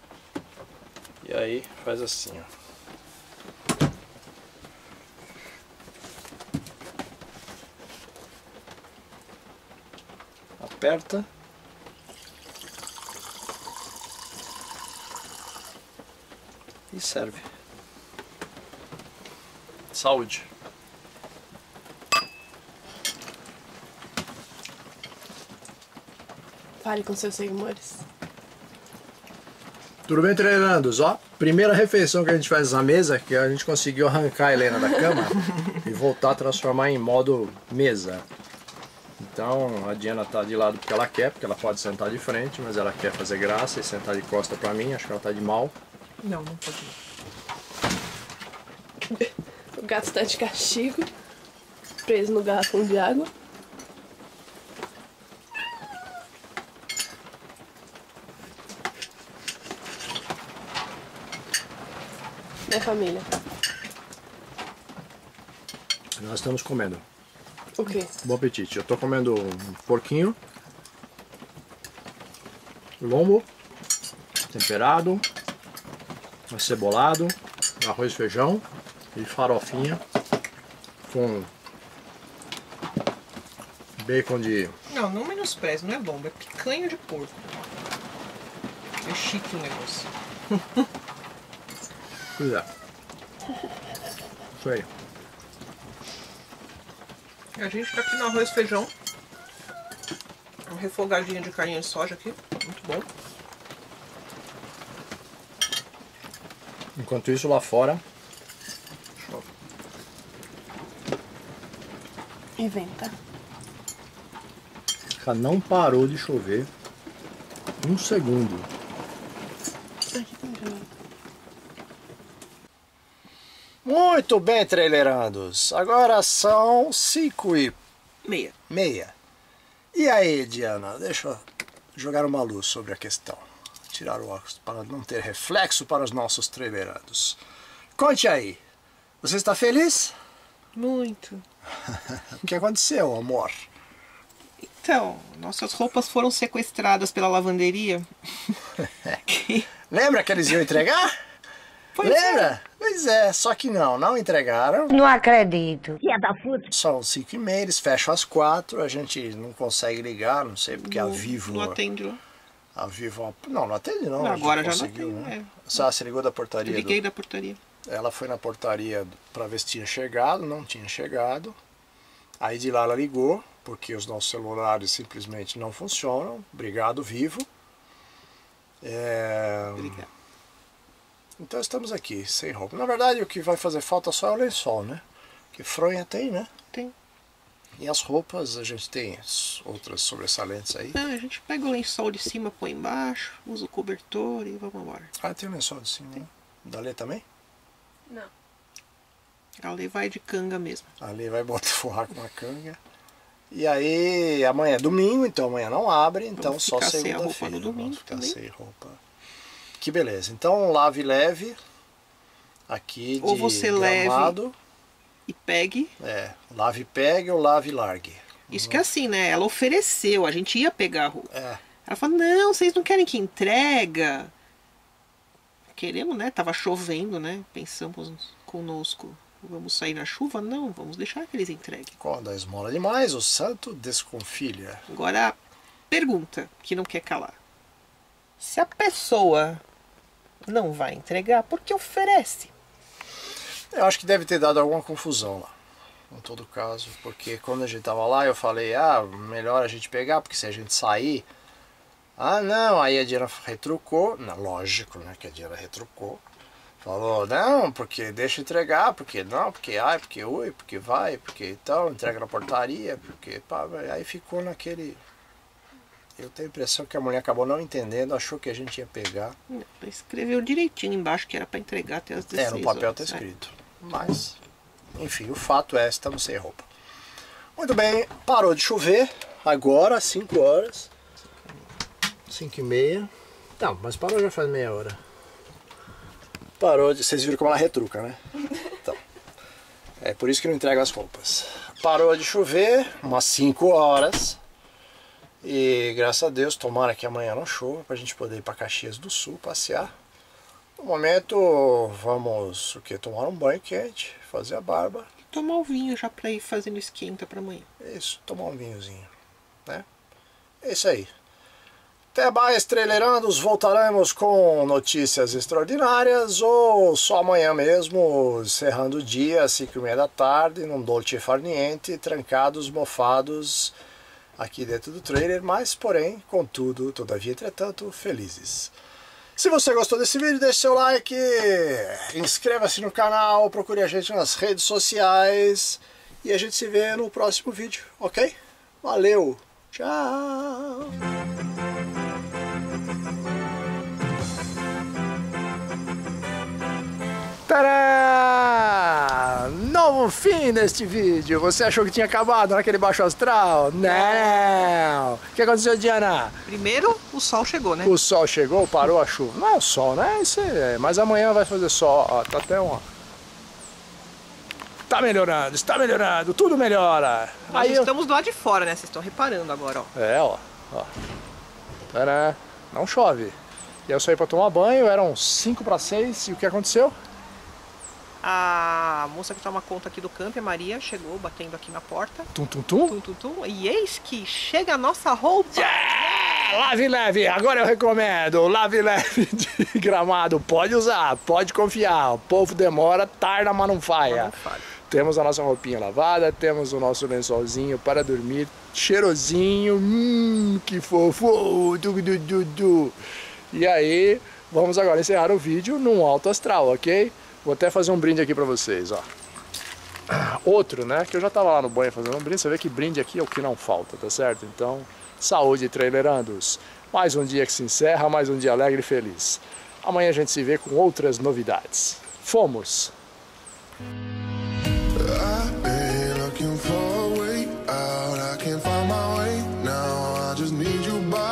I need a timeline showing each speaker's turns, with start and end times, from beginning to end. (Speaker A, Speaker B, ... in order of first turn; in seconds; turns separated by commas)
Speaker A: 1.2-2.5, Speaker A: 10.6-11.3, Speaker A: 16.9-17.4, Speaker A: 19.9-20.5, Speaker B: 26.8-28.0, Speaker A: 30.1-38.2, Speaker A: 39.2-45.7, Speaker C: 46.2-47.0, Speaker B: 49.2-51.1, Speaker B: 52.0-53.3, Speaker B: 62.7-63.2, Speaker A: 66.2-67.0, Speaker B: 67.8-68.1, Speaker A: 68.2-70.4, Speaker A: 73.0-73.5, Speaker A: 74.5-75.2, Speaker A: 76.5-78.6, Speaker A: 79.1-80.0, Speaker A: 81.1-81.5, Speaker A: 84.0-84.7, Speaker C: 84.9-87.4, Speaker C: 89.0-90.9, Speaker A: 92.4-92.7, Speaker A: 94.6-94.9, Speaker C: 97.5-98.9, Speaker C: 100.7-103.1, Speaker A: 107.0-108.0, Speaker B: 112.6-113.1, Speaker A: 115.2-116.7, Speaker A: 117.8-118.7, Speaker B: 120.1-120.9, Speaker A: 123.8-127.8, Speaker C: 128.2-128.5, Speaker A: 128.7-129.1, Speaker A: 129.9-131.4, Speaker A: 131.9-137.4, Speaker A: 137.9-138.6, Speaker A: 139.2-140.1, Speaker C: 140.7-141.4, Speaker A: 142.2-143.7, Speaker C: 144.6-148.1, Speaker C: 149.3-149.7, Speaker A: 149.9-151.1, Speaker C: 151.9-152.5, Speaker A: 152.0-155.0, Speaker D: 154.9-156.6, Speaker A: 156.7-161.8, Speaker C: 160.7-162.2, Speaker A: 162.7-167.0, Speaker C: 164.2-165.7, Speaker C: 166.6-167.6, Speaker A: 167.8-171.5, Speaker A: 172.4-177.5, Speaker A: 178.8-180.0, Speaker C: 179.7-180.1, Speaker A: 181.4-185.0, Speaker A: 185.5-186.5, Speaker A: 187.8-191.0, Speaker C: 190.9-195.1, Speaker A: 195.2-197.2, Speaker C: 199.6-200.9, Speaker A: 201.0-202.8, Speaker A: 203.5-209.0, Speaker C: 206.4-208.4, Speaker A: 209.8-211.6, Speaker A: 212.7-214.5, Speaker C: 213.2-214.4, Speaker C: 215.3-215.9, Speaker A: 216.0-218.8, Speaker C: 218.5-221.3, Speaker A: 221.3-221.6, Speaker C: 221.8-224.3, Speaker C: 225.7-231.9, Speaker A: 232.0-234.8, Speaker C: 234.9-235.4, Speaker C: 235.9-237.4, Speaker C: 238.4-239.6, Speaker C: 240.4-242.5, Speaker A: 243.7-245.5, Speaker A: 246.1-251.3, Speaker A: 252.2-256.2, Speaker A: 256.8-265.0, Speaker A: 266.2-269.3, Speaker C: 269.5-273.2, Speaker A: 272.3-274.4, Speaker A: 274.9-276.6, Speaker A: 277.6-280.9, Speaker A: 282.3-285.0, Speaker A: 286.6-288.2, Speaker A: 290.0-294.4, Speaker A: 295.4-299.9, Speaker A: 300.8-305.1, Speaker C: 305.3-307.7, Speaker A: 307.8-309.1, Speaker A: 310.6-311.1, Speaker A: 312.1-323.7, Speaker A: 324.4-328.7, Speaker A: 329.4-340.9, Speaker A: 347.5-356.4, Speaker C: 353.8-354.7, Speaker C: 356.4-357.9, Speaker A: 357.8-362.8, Speaker A: 364.9-367.9, Speaker C: 367.5-369.9, Speaker A: 369.9-370.9, Speaker A: 371.9-373.3, Speaker A: 373.9-376.9, Speaker C: 378.2-382.3, Speaker A: 382.3-383.0, Speaker C: 382.9-386.2, Speaker A: 385.5-394.3, Speaker C: 394.0-394.7, Speaker A: 394.9-402.9, Speaker A: 403.5-409.1, Speaker A: 410.1-422.9, Speaker D: 425.2-429.8, Speaker D: 430.4-430.8